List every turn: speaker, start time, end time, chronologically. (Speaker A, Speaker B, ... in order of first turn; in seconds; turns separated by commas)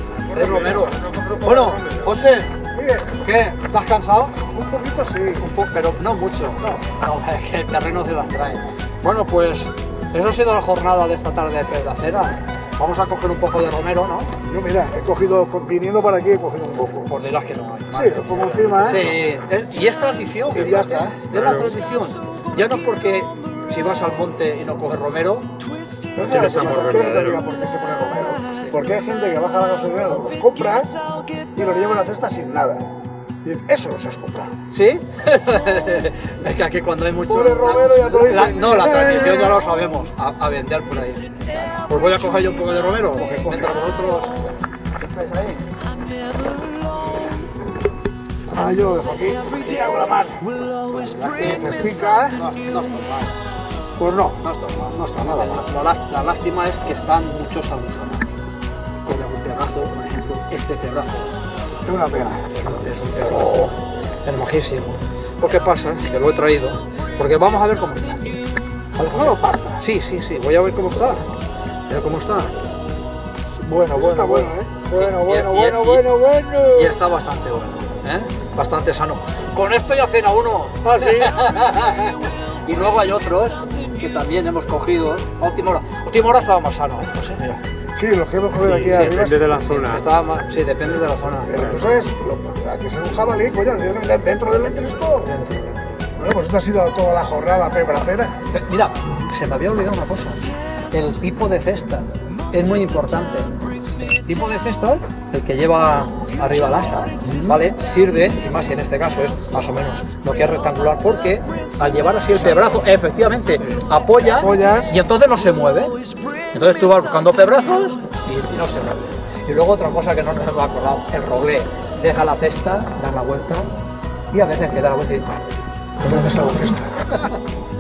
Speaker A: 0.2-2.1, Speaker B: 0.3-4.4, Speaker C: 2.7-3.2, Speaker C: 4.4-5.5, Speaker B: 5.4-14.4, Speaker C: 14.5-17.1, Speaker B: 17.1-25.5, Speaker C: 17.9-19.1, Speaker A: 18.7-19.1, Speaker C: 20.5-21.3, Speaker A: 21.3-21.8, Speaker C: 26.1-31.0, Speaker A: 26.2-27.4, Speaker C: 31.6-32.9, Speaker C: 33.4-34.5, Speaker B: 34.7-44.3, Speaker C: 37.3-39.6, Speaker C: 43.2-43.8, Speaker B: 45.0-45.7, Speaker C: 48.5-50.5, Speaker B: 50.8-53.4, Speaker C: 51.4-52.4, Speaker C: 54.0-55.7, Speaker B: 54.4-58.3, Speaker B: 59.0-61.3, Speaker C: 61.8-62.5, Speaker B: 62.5-68.2, Speaker B: 69.0-71.3, Speaker C: 69.0-69.8, Speaker B: 71.9-72.5, Speaker B: 73.6-76.0, Speaker C: 73.9-77.0, Speaker B: 76.7-87.6, Speaker A: 80.9-81.3, Speaker C: 88.0-89.5, Speaker A: 88.6-90.0, Speaker B: 89.6-91.6, Speaker C: 91.5-95.3, Speaker A: 91.6-91.9, Speaker B: 95.2-95.8, Speaker C: 96.2-98.4, Speaker B: 98.5-116.0, Speaker C: 107.2-107.6, Speaker C: 112.3-112.8, Speaker C: 114.2-114.9, Speaker B: 116.5-123.7, Speaker B: 124.3-125.4, Speaker C: 126.0-127.1